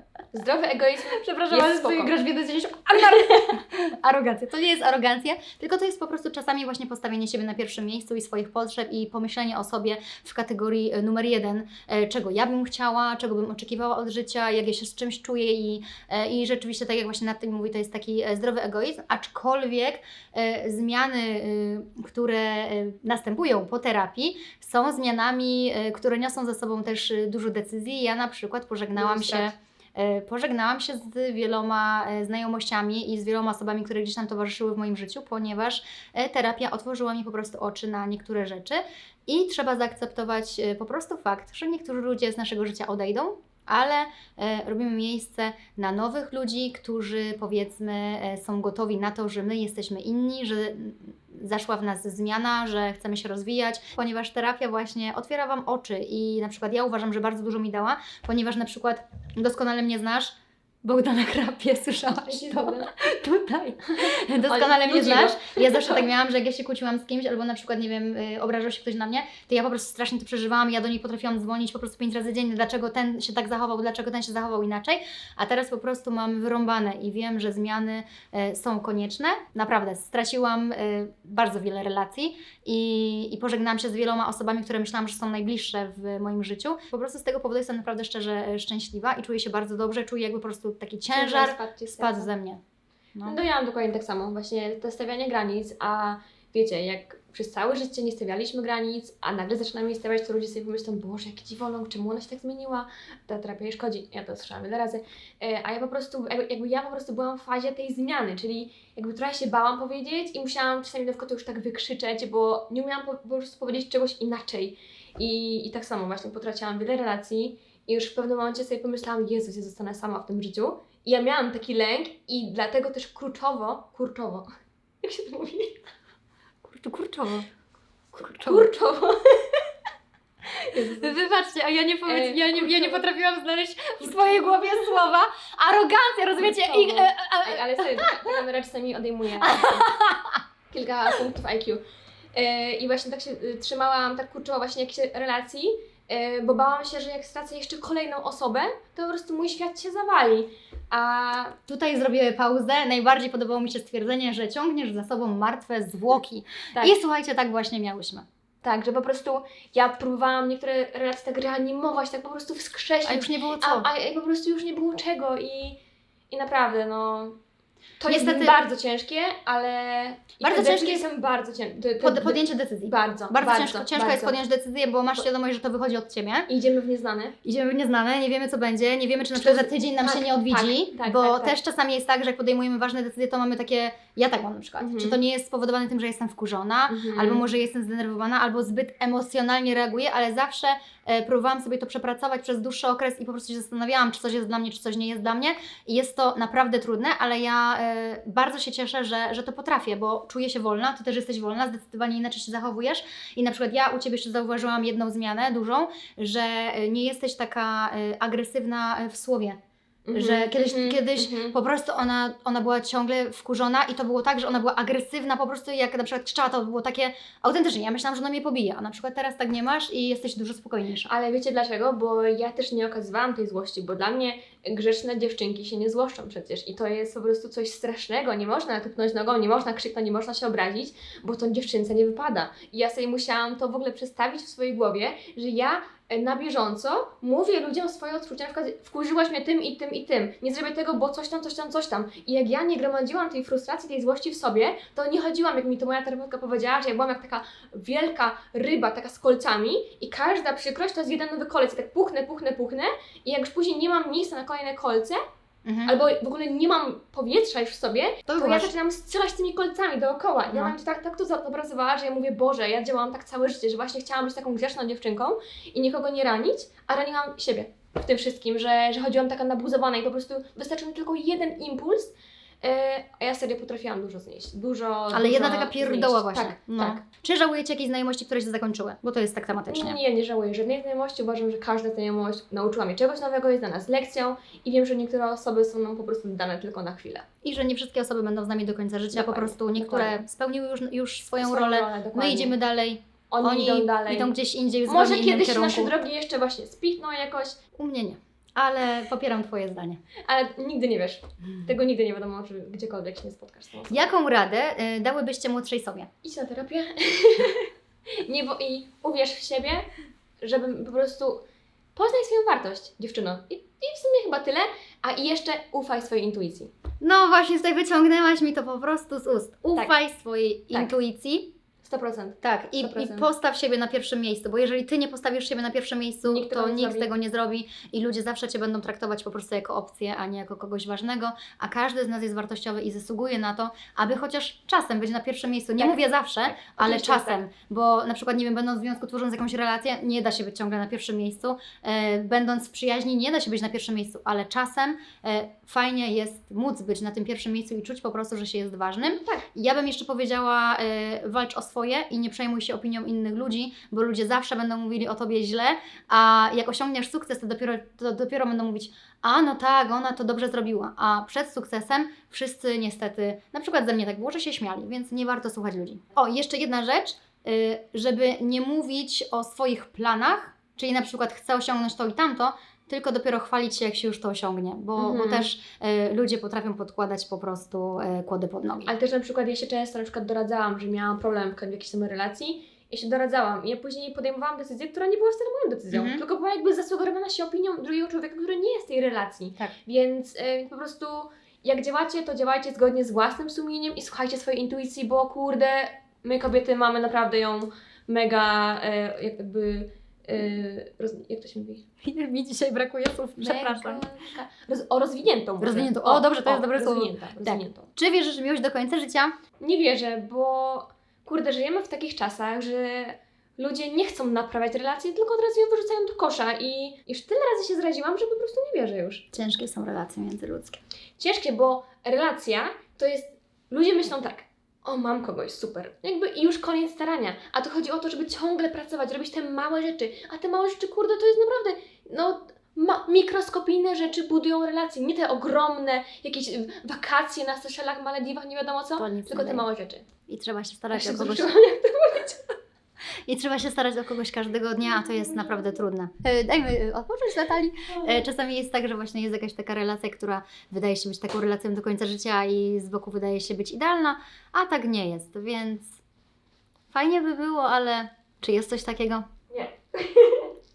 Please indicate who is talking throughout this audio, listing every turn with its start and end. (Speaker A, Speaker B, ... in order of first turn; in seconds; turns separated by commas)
Speaker A: 0.3-2.1, Speaker B: 1.2-92.6, Speaker A: 2.9-3.5, Speaker A: 29.0-29.6, Speaker A: 62.3-62.9, Speaker A: 63.9-66.1, Speaker A: 91.1-92.3, Speaker A: 93.2-124.5, Speaker A: 125.0-125.8, Speaker B: 126.6-127.5, Speaker A: 128.1-129.7, Speaker B: 128.2-128.7, Speaker A: 130.5-131.3, Speaker B: 130.8-138.3, Speaker A: 132.1-133.1, Speaker A: 134.0-135.1, Speaker A: 136.4-139.9, Speaker B: 139.4-140.4, Speaker A: 140.7-141.8, Speaker A: 142.3-151.6, Speaker B: 151.7-158.2, Speaker A: 158.6-165.8, Speaker B: 163.1-163.9, Speaker A: 166.3-167.4, Speaker A: 168.0-174.4, Speaker B: 168.1-168.5, Speaker B: 170.4-171.1, Speaker B: 172.0-176.5, Speaker A: 176.5-177.4, Speaker B: 177.4-209.6, Speaker A: 179.4-181.6, Speaker A: 184.8-185.2, Speaker A: 186.9-187.5, Speaker A: 210.1-211.6, Speaker B: 210.1-221.1, Speaker A: 221.1-255.2, Speaker B: 255.7-256.0, Speaker A: 255.8-277.0, Speaker B: 258.3-258.7, Speaker B: 275.1-280.0, Speaker A: 279.7-287.3, Speaker B: 287.4-295.9, Speaker A: 289.1-290.1, Speaker A: 291.4-292.6, Speaker A: 293.3-294.3, Speaker A: 294.9-297.6, Speaker B: 297.8-300.0, Speaker A: 300.2-304.1, Speaker B: 303.9-306.1, Speaker A: 306.2-311.4, Speaker A: 311.9-316.7, Speaker B: 317.0-321.5, Speaker A: 321.8-323.3, Speaker B: 322.4-378.9, Speaker A: 326.2-327.1, Speaker A: 335.8-337.4, Speaker A: 349.0-349.5, Speaker A: 375.0-375.5, Speaker A: 378.9-401.9, Speaker B: 385.9-386.2, Speaker B: 402.0-404.0, Speaker A: 403.4-407.9, Speaker B: 405.6-409.3, Speaker A: 409.6-419.2, Speaker B: 419.3-420.8, Speaker A: 421.2-440.1, Speaker B: 439.0-439.7, Speaker B: 440.3-441.5, Speaker A: 440.9-442.6, Speaker B: 443.3-456.0, Speaker A: 447.9-448.2, Speaker B: 456.9-459.3, Speaker A: 459.5-460.5